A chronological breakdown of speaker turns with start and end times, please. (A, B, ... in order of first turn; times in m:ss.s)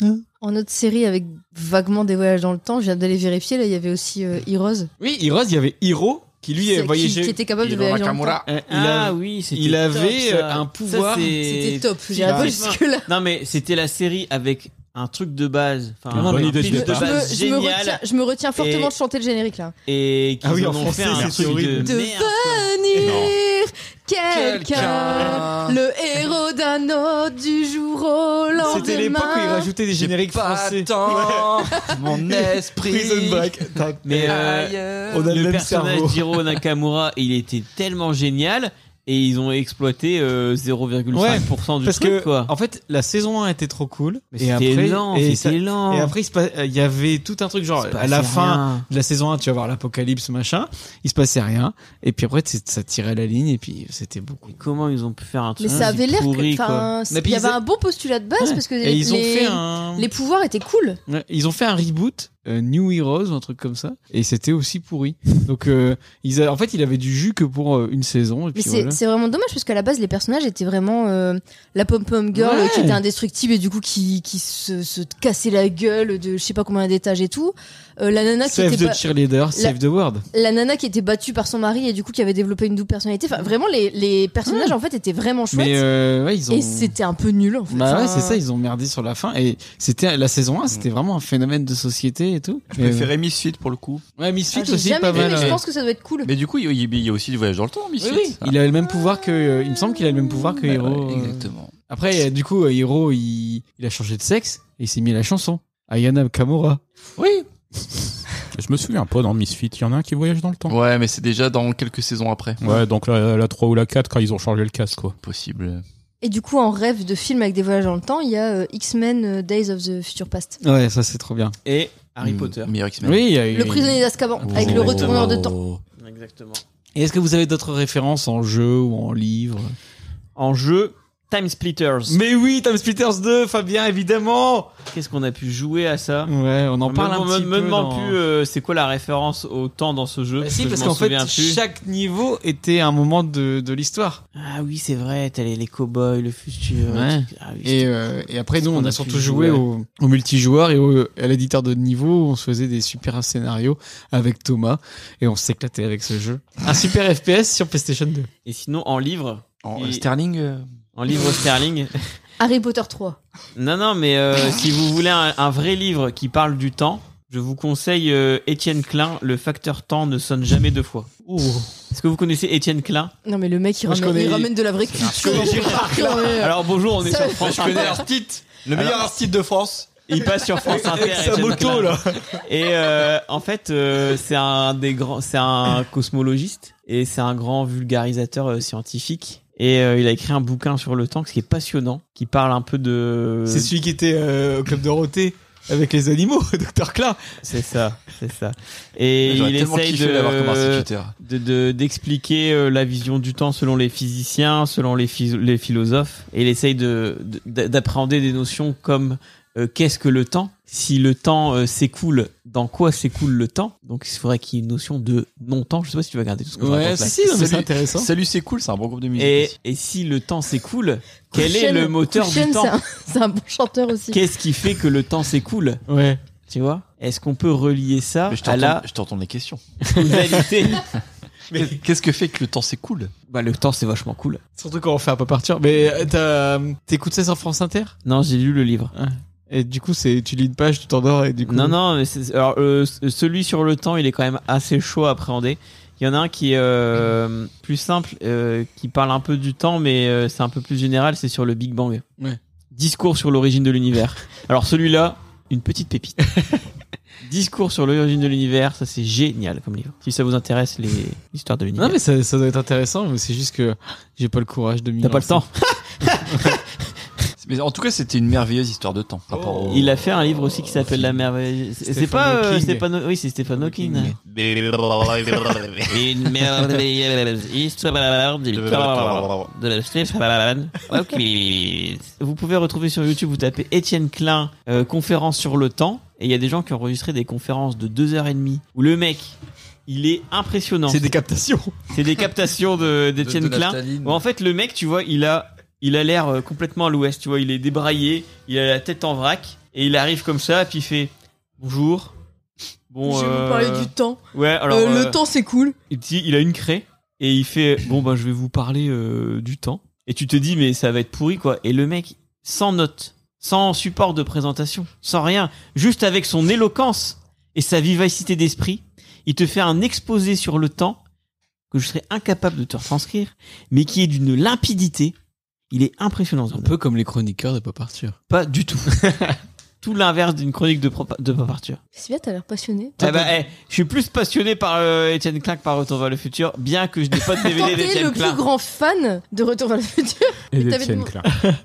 0:00.4-0:04.9 A
0:05.0-0:07.4 B
0:06.6-0:08.4 A
0:07.6-0:08.4 C
0:08.5-0:11.4 B
0:08.5-0:18.0 D
0:11.4-0:13.1 A
0:12.2-0:12.5 B
0:16.1-0:17.1 E
0:16.1-0:17.1 B
0:16.9-0:19.7 A
0:18.6-0:18.9 D
0:19.9-0:22.7 D
0:20.4-0:22.0 B
0:21.6-0:29.7 A
0:23.0-0:23.3 E
0:24.3-0:25.8 C
0:28.6-0:31.8 B
0:29.9-0:35.3 C
0:32.8-0:34.4 B
0:34.0-0:42.5 D
0:35.1-0:36.4 B
0:41.1-0:54.5 B
0:44.4-0:46.1 D
0:47.8-0:48.8 D
0:54.5-0:56.9 D
0:55.6-1:01.0 A
0:55.7-0:55.9 B
0:57.1-0:57.6 B
0:58.4-1:00.1 B
1:01.1-1:09.0 B
1:08.6-1:19.0 A
1:12.3-1:13.0 B
1:18.5-1:20.2 B
1:20.3-1:25.8 A
1:24.4-1:24.8 B
1:25.5-1:27.0 B
1:26.5-1:28.4 A
1:27.7-1:33.1 B
1:32.7-1:34.0 C
1:34.2-1:35.6 B
1:34.5-1:36.3 A
1:35.1-1:35.6 C
1:36.2-1:38.5 C
1:38.0-1:46.8 B
1:40.6-1:41.7 C
1:47.2-1:47.5 C
1:48.6-1:50.7 E
1:50.7-1:52.8 C
1:52.6-1:55.2 E
1:55.2-1:55.8 C
1:56.2-2:00.6 A
2:00.6-2:01.6 B
2:01.7-2:02.7 D
2:02.2-2:03.3 C
2:03.0-2:04.0 B
2:03.5-2:05.5 A
2:04.4-2:05.8 C
2:04.5-2:05.4 D
2:06.0-2:06.6 D
2:07.0-2:09.8 B
2:10.4-2:12.2 D
2:12.1-2:14.7 B
2:14.9-2:16.3 D
2:16.3-2:18.2 B
2:16.8-2:21.6 D
2:20.4-2:24.2 B
2:24.4-2:28.0 D
2:26.9-2:38.3 B
2:28.6-2:29.6 D
2:38.5-2:40.1 D
2:39.6-2:40.7 C
2:41.0-2:42.1 D
2:42.4-2:43.2 A
2:43.6-2:51.1 D
2:51.3-2:51.7 B
2:51.9-2:53.1 D
2:53.3-2:56.5 A
2:53.9-2:56.5 B
2:56.4-2:58.0 D
2:57.0-2:58.0 A
2:57.4-2:59.9 C
3:00.1-3:13.7 D
3:00.6-3:02.3 B
3:13.5-3:17.4 B
3:17.4-3:37.2 D
3:19.2-3:21.1 C
3:36.6-3:38.1 B
3:37.2-3:39.5 C
3:39.2-3:42.8 D
3:41.4-3:44.2 A
3:44.1-3:45.8 D
3:45.9-3:46.2 B
3:46.5-3:48.8 D
3:48.3-3:49.6 C
3:49.9-3:50.4 B
3:49.9-3:50.8 D
3:51.5-3:51.8 B
3:51.5-3:53.1 C
3:53.3-3:54.4 D
3:54.6-3:58.0 B
3:58.0-3:58.9 D
3:59.0-4:01.8 B
4:01.4-4:12.0 D
4:12.7-4:16.3 D
4:17.2-4:22.0 D
4:21.8-4:25.4 B
4:25.0-4:26.6 D
4:26.3-4:26.6 B
4:27.4-4:30.2 C
4:29.3-4:29.7 B
4:29.7-4:34.2 D
4:31.9-4:32.8 B
4:33.6-4:36.0 C
4:35.9-4:49.4 D
4:38.5-4:39.5 C
4:49.9-4:51.1 D
4:50.9-4:51.8 B
4:51.9-5:02.1 D
4:53.2-4:54.2 C
5:02.9-5:05.2 D
5:03.0-5:05.8 A
5:05.9-5:21.0 D
5:21.7-5:25.2 D
5:25.7-5:26.7 D
5:26.6-5:28.2 B
5:28.3-5:29.0 D
5:29.0-5:29.4 B
5:29.8-5:31.8 D
5:32.0-5:33.0 A
5:33.0-5:33.3 B
5:33.0-5:38.4 D
5:37.4-5:41.1 A
5:40.5-5:41.3 E
5:41.3-5:41.6 B